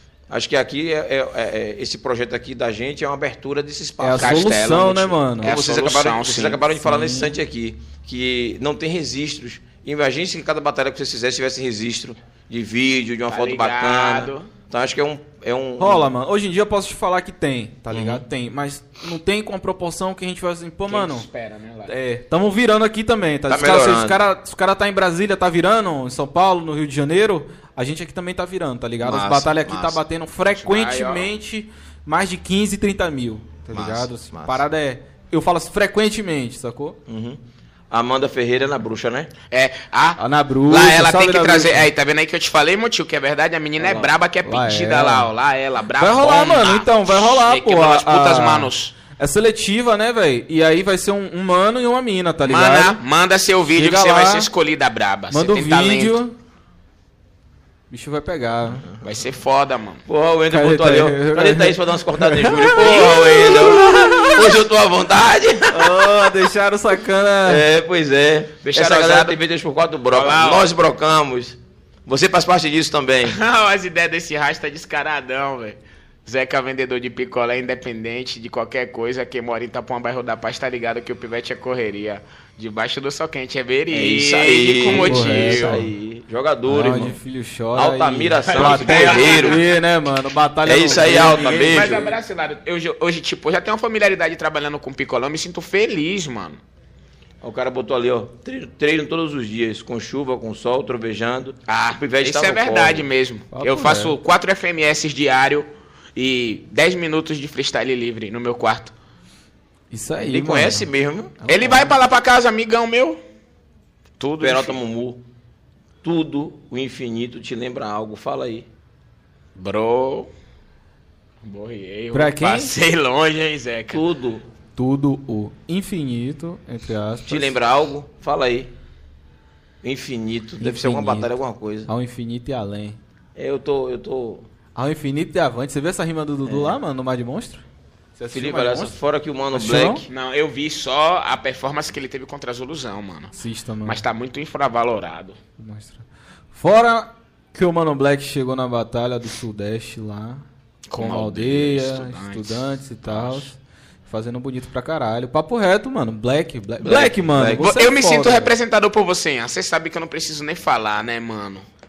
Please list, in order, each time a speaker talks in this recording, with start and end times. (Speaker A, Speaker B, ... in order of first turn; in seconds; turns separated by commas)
Speaker A: 0.3-4.5, Speaker B: 4.0-5.5, Speaker C: 4.2-6.6, Speaker A: 5.4-16.1, Speaker B: 6.7-7.3, Speaker C: 13.3-14.5, Speaker B: 15.8-21.2, Speaker A: 17.9-18.2, Speaker C: 20.9-21.9, Speaker B: 21.9-37.0, Speaker A: 23.5-24.2, Speaker A: 29.0-30.0, Speaker C: 30.4-31.3, Speaker A: 33.7-34.6, Speaker A: 37.1-37.4, Speaker A: 37.9-39.3, Speaker C: 39.5-48.9, Speaker B: 40.2-41.9, Speaker A: 43.8-44.1, Speaker B: 44.4-45.3, Speaker B: 46.0-53.0, Speaker C: 52.5-56.2, Speaker B: 53.8-54.5, Speaker B: 55.3-56.3, Speaker B: 57.9-58.9, Speaker C: 59.0-60.0, Speaker A: 60.1-66.3, Speaker B: 60.5-64.6, Speaker C: 62.9-63.5, Speaker B: 65.7-67.6, Speaker A: 67.4-73.4, Speaker C: 68.7-69.4, Speaker C: 70.1-70.7, Speaker C: 73.2-85.8, Speaker A: 83.9-87.2, Speaker B: 84.9-85.9, Speaker B: 86.7-92.1, Speaker A: 87.7-89.6, Speaker C: 88.5-89.6, Speaker A: 90.6-92.1, Speaker C: 91.5-96.6, Speaker A: 97.4-103.1, Speaker C: 101.7-108.9, Speaker B: 103.5-104.2, Speaker B: 109.9-110.9, Speaker A: 110.2-111.3, Speaker B: 111.4-111.9, Speaker C: 111.5-113.2, Speaker C: 114.2-114.8, Speaker A: 114.4-115.2, Speaker A: 116.0-118.7, Speaker C: 119.5-120.3, Speaker C: 121.4-124.0, Speaker B: 122.1-122.7, Speaker A: 123.9-124.4, Speaker B: 124.8-127.5, Speaker A: 127.2-128.7, Speaker A: 129.8-131.9, Speaker B: 130.6-131.3, Speaker B: 131.9-133.0, Speaker A: 133.3-134.4, Speaker B: 134.7-137.6, Speaker A: 136.4-136.8, Speaker B: 138.2-138.9, Speaker A: 138.3-140.1, Speaker B: 139.5-140.0, Speaker C: 140.1-145.4, Speaker B: 143.3-144.0, Speaker B: 145.6-150.4, Speaker C: 150.9-153.5, Speaker B: 150.9-158.5, Speaker A: 156.8-157.7, Speaker C: 157.6-161.7